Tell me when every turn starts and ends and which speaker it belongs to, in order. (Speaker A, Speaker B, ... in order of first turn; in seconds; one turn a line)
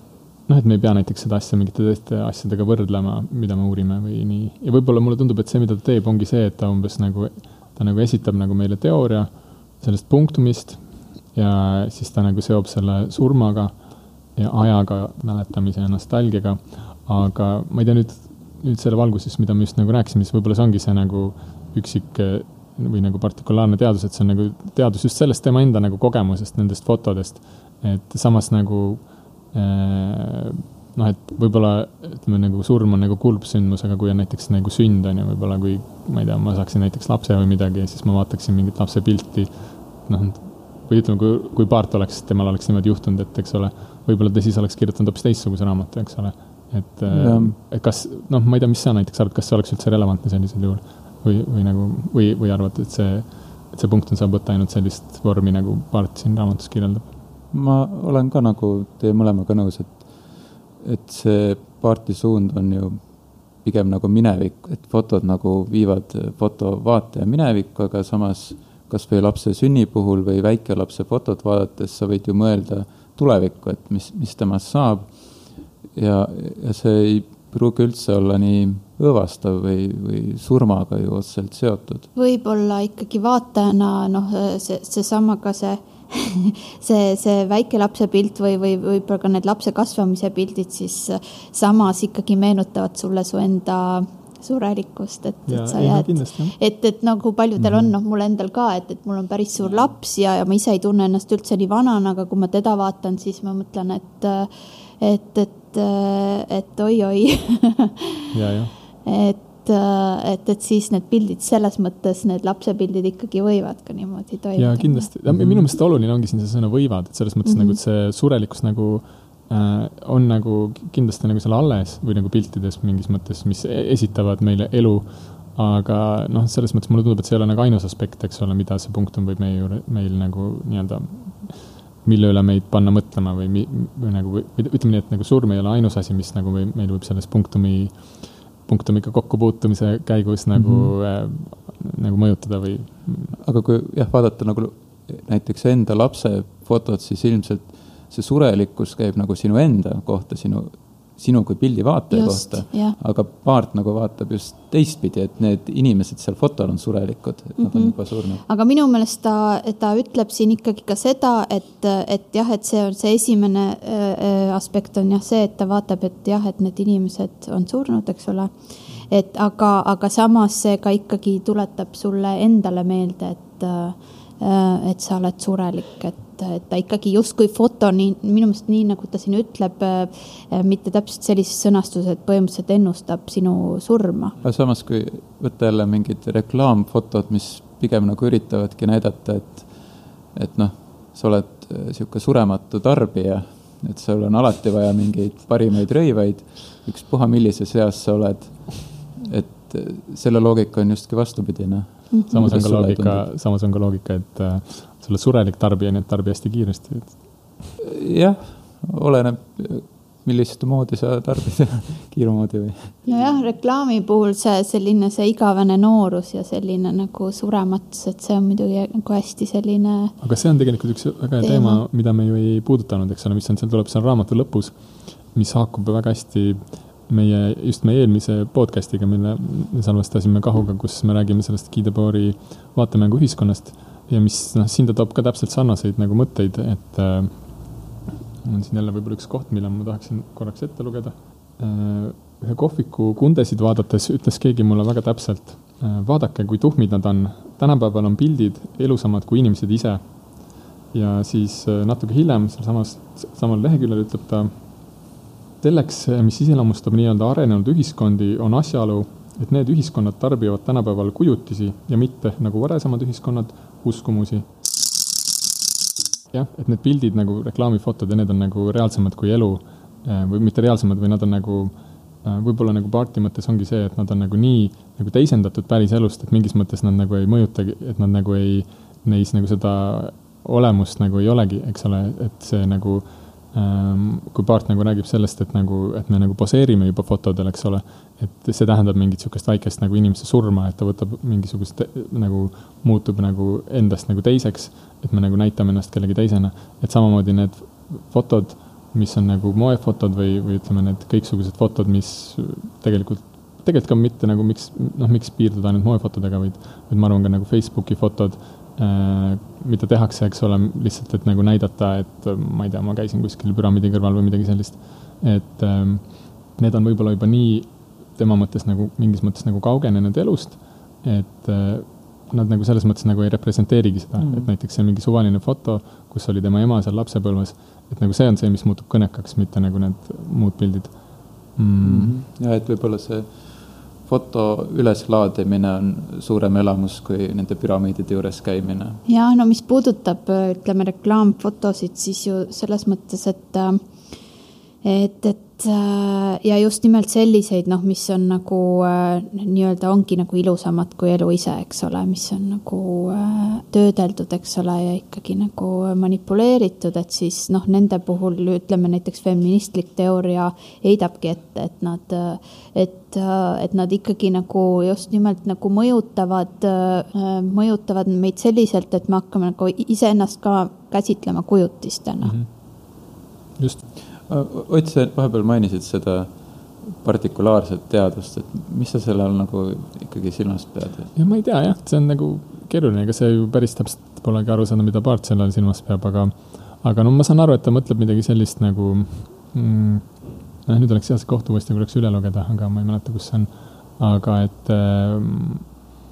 Speaker A: 0.5-57.1
Speaker B: 47.1-47.5
Speaker B: 57.5-82.1
Speaker C: 82.1-108.3
Speaker A: 95.5-96.5
Speaker B: 97.6-97.9
Speaker A: 108.3-108.8
Speaker C: 109.0-115.1
Speaker A: 114.5-143.4
Speaker B: 115.3-115.7
Speaker C: 117.4-117.8
Speaker B: 140.5-140.9
Speaker B: 143.4-158.4
Speaker C: 152.1-152.9
Speaker C: 157.6-184.4
Speaker B: 184.4-203.3
Speaker C: 202.1-202.5
Speaker A: 202.3-207.6
Speaker B: 207.8-213.3
Speaker C: 213.1-220.1
Speaker A: 220.2-237.9
Speaker C: 221.4-221.8
Speaker A: 238.4-254.9
Speaker A: 255.6-264.5
Speaker A: 266.3-332.2
Speaker B: 324.2-324.5
Speaker B: 331.8-339.0
Speaker C: 339.1-344.1
Speaker C: 344.8-372.4
Speaker A: 372.2-372.5
Speaker A: 373.6-373.8
Speaker B: 374.2-381.1
Speaker A: 381.1-395.7